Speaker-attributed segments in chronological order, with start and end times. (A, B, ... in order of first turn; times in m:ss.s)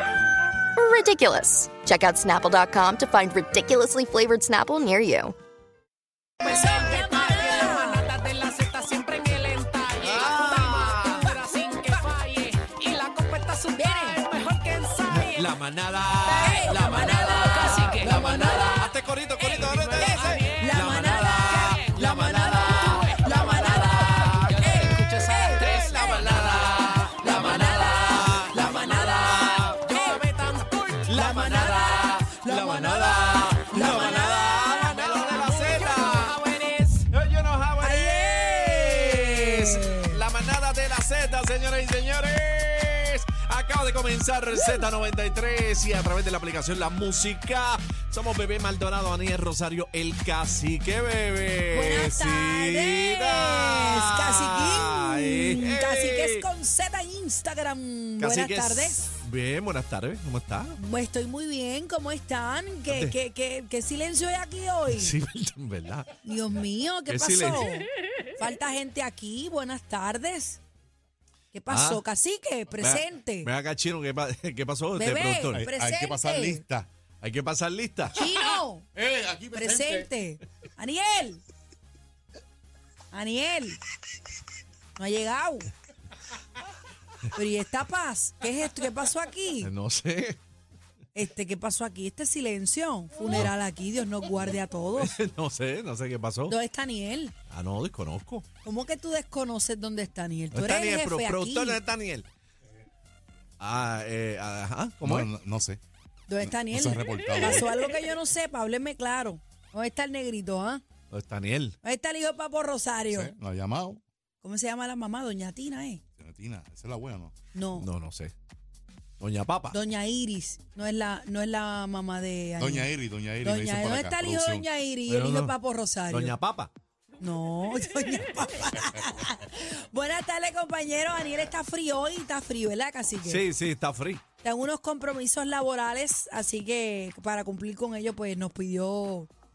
0:00.8-0:05.4 A
0:06.4-0:08.0 B
0:06.4-0:15.5 C
0:10.0-0:11.2 D
0:10.4-0:11.4 B
0:13.7-0:14.2 B
0:15.2-0:29.8 D
0:16.2-0:18.8 B
0:16.6-0:18.6 C
0:19.4-0:22.4 C
0:20.0-0:30.2 B
0:23.2-0:23.8 C
0:24.4-0:26.3 C
0:26.9-0:27.8 C
0:28.4-0:31.0 C
0:31.1-0:31.8 D
0:31.1-0:34.9 B
0:31.7-0:32.8 C
0:32.5-0:36.4 D
0:34.9-0:37.0 C
0:37.1-0:56.5 D
0:37.8-0:40.2 B
0:44.5-0:44.9 B
0:51.7-0:59.1 B
0:58.2-1:00.8 D
1:00.8-1:05.1 B
1:02.9-1:03.2 D
1:04.9-1:06.1 D
1:06.2-1:10.6 B
1:07.1-1:07.7 D
1:11.5-1:13.5 B
1:11.7-1:12.0 D
1:12.8-1:15.7 D
1:15.0-1:16.6 B
1:15.5-1:16.9 E
1:17.2-1:18.2 D
1:18.1-1:18.9 B
1:18.4-1:20.1 E
1:19.5-1:21.4 B
1:23.1-1:23.8 B
1:25.0-1:25.7 B
1:27.3-1:29.7 B
1:29.6-1:30.4 D
1:31.1-1:35.1 B
1:35.0-1:36.6 D
1:36.5-1:37.4 B
1:37.5-1:38.5 D
1:38.6-1:41.8 B
1:40.5-1:42.3 D
1:43.6-1:45.3 D
1:45.1-1:45.8 E
1:46.3-1:50.8 B
1:46.4-1:47.8 E
1:51.1-1:51.8 D
1:51.8-1:53.3 B
1:53.1-1:54.0 E
1:54.4-1:56.0 B
1:56.2-1:57.3 E
1:57.5-1:57.9 B
1:57.8-1:58.3 D
1:59.2-1:59.8 D
1:59.7-2:06.4 B
2:02.6-2:04.7 E
2:05.1-2:05.6 D
2:06.1-2:06.7 D
2:07.2-2:13.5 B
2:13.2-2:14.2 D
2:14.4-2:19.3 B